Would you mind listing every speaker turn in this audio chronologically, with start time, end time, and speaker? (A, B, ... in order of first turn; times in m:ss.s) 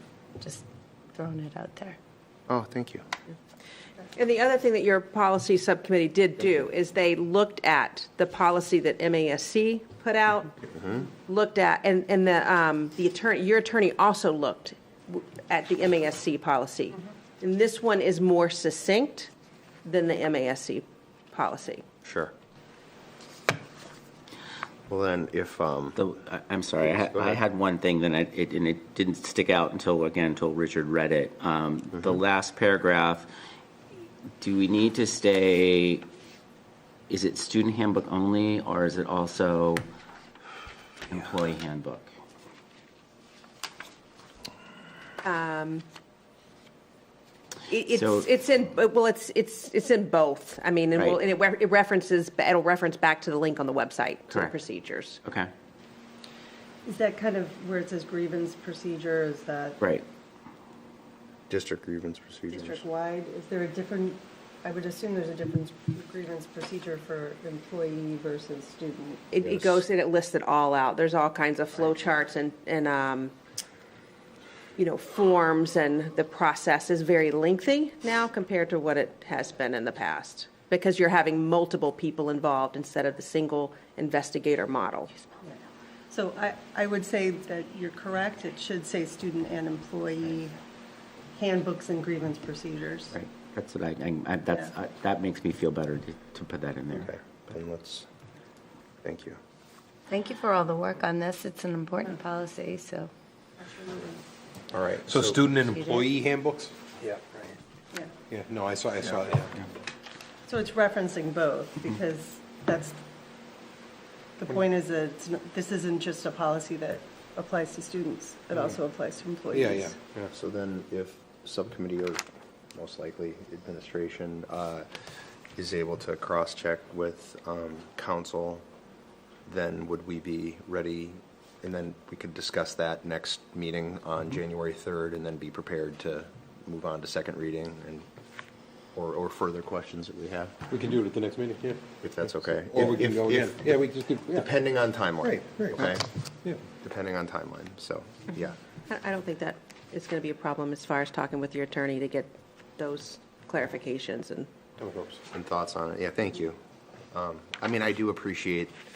0:00.4-0:02.0 A
0:02.5-0:03.0 B
0:04.1-0:10.5 C
0:10.7-0:11.1 B
0:11.1-0:19.3 C
0:19.8-0:21.8 C
0:22.0-0:22.3 B
0:24.9-0:26.0 B
0:26.0-0:33.3 D
0:26.8-0:27.4 B
0:34.4-0:36.0 D
0:37.1-0:39.8 D
0:41.1-0:42.1 D
0:45.2-0:45.8 C
0:47.7-0:55.2 C
0:47.9-0:48.3 D
0:55.2-0:55.5 D
0:56.8-0:59.8 E
0:59.8-1:00.0 D
1:01.5-1:02.8 B
1:02.5-1:09.3 E
1:09.3-1:13.3 C
1:14.8-1:25.1 C
1:26.1-1:30.6 E
1:31.3-1:33.2 E
1:33.1-1:37.1 D
1:37.0-1:38.1 B
1:39.0-1:39.4 B
1:40.1-1:43.1 A
1:43.7-1:44.2 E
1:44.7-1:45.4 B
1:45.0-1:47.5 F
1:45.7-1:46.1 A
1:48.3-1:49.6 F
1:50.5-1:53.0 E
1:54.4-2:00.0 E
1:59.5-2:00.3 F
2:00.3-2:02.2 B
2:02.7-2:04.9 B
2:05.6-2:08.6 B
2:09.4-2:18.1 B
2:18.9-2:20.6 B
2:20.7-2:24.5 F
2:22.0-2:23.8 B
2:24.3-2:26.1 B
2:25.2-2:25.9 F
2:26.7-2:28.6 B
2:28.9-2:34.5 C
2:34.8-2:35.2 F
2:35.3-2:36.6 B
2:37.1-2:38.7 B